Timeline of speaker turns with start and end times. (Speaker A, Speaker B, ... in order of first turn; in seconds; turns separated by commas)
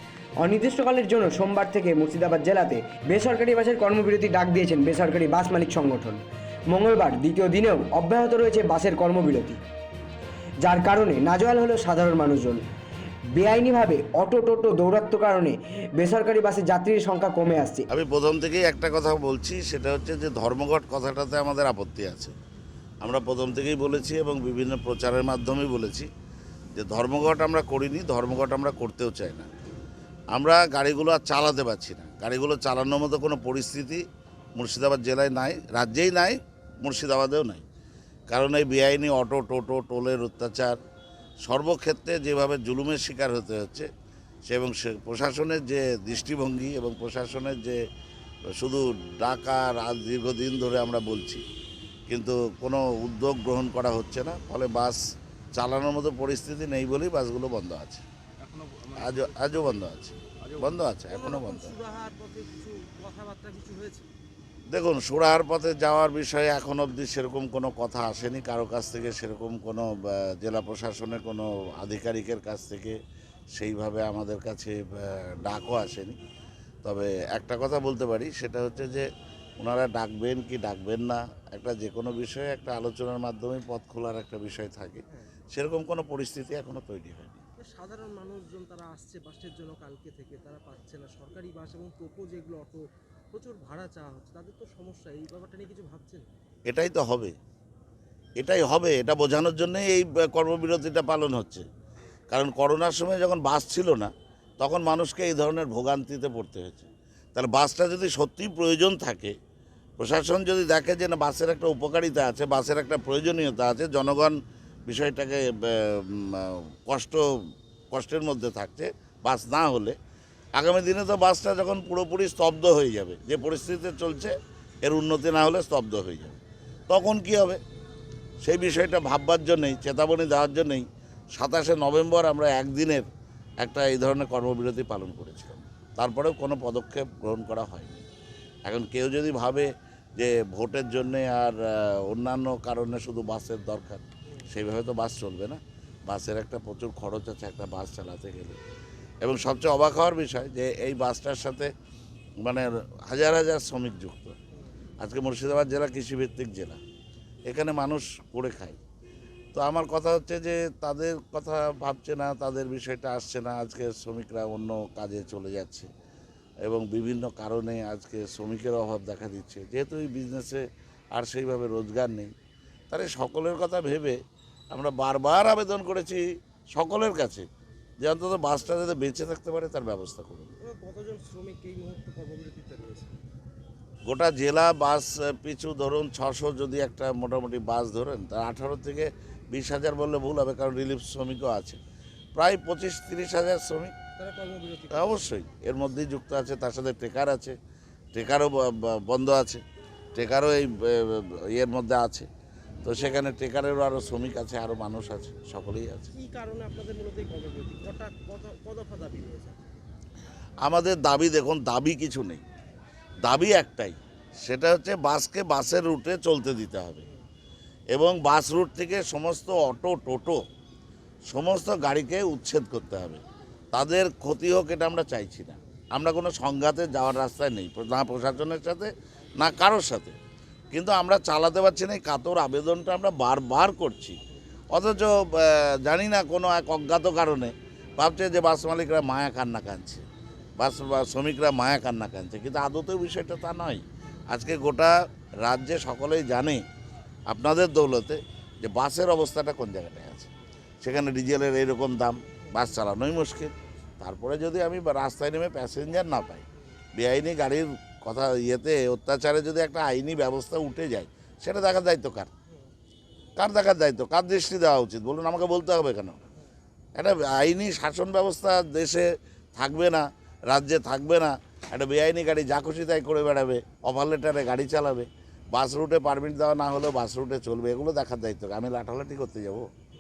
Speaker A: 0.4-9.6, Speaker A: 10.6-12.6, Speaker A: 13.3-17.9, Speaker B: 17.9-22.3, Speaker B: 23.0-26.1, Speaker B: 26.8-29.5, Speaker B: 30.3-34.0, Speaker B: 34.6-37.6, Speaker B: 38.3-40.8, Speaker B: 41.5-43.9, Speaker B: 44.5-47.8, Speaker B: 48.6-51.4, Speaker B: 52.1-55.0, Speaker B: 55.5-58.0, Speaker C: 58.4-59.8, Speaker B: 59.0-61.8, Speaker C: 60.4-64.1, Speaker B: 64.7-73.0, Speaker B: 73.5-76.2, Speaker B: 76.8-79.1, Speaker B: 79.6-87.4, Speaker C: 87.6-96.3, Speaker B: 96.7-97.4, Speaker B: 98.4-101.7, Speaker B: 102.3-109.3, Speaker B: 110.0-120.0, Speaker B: 120.6-126.4, Speaker B: 126.9-127.6, Speaker B: 128.4-133.1, Speaker B: 133.6-138.1, Speaker B: 138.7-148.6, Speaker B: 149.2-151.7, Speaker B: 152.4-154.3, Speaker B: 155.0-156.8, Speaker B: 157.5-158.8, Speaker B: 159.6-165.9, Speaker B: 166.7-172.3, Speaker B: 172.9-174.2, Speaker B: 174.7-177.5, Speaker B: 178.0-180.5, Speaker C: 180.6-183.2, Speaker B: 184.1-191.8, Speaker B: 192.3-193.9, Speaker C: 194.2-195.3, Speaker B: 194.9-197.6, Speaker B: 198.1-199.6, Speaker B: 200.2-202.3, Speaker B: 202.8-206.1, Speaker C: 206.1-209.7, Speaker B: 210.6-212.4, Speaker B: 213.2-217.0, Speaker B: 217.9-220.4, Speaker B: 221.3-230.2, Speaker B: 230.7-234.2, Speaker B: 234.7-240.1, Speaker B: 240.6-246.6, Speaker B: 247.3-250.3, Speaker B: 250.8-256.4, Speaker B: 256.9-262.3, Speaker B: 263.4-266.2, Speaker B: 267.0-279.7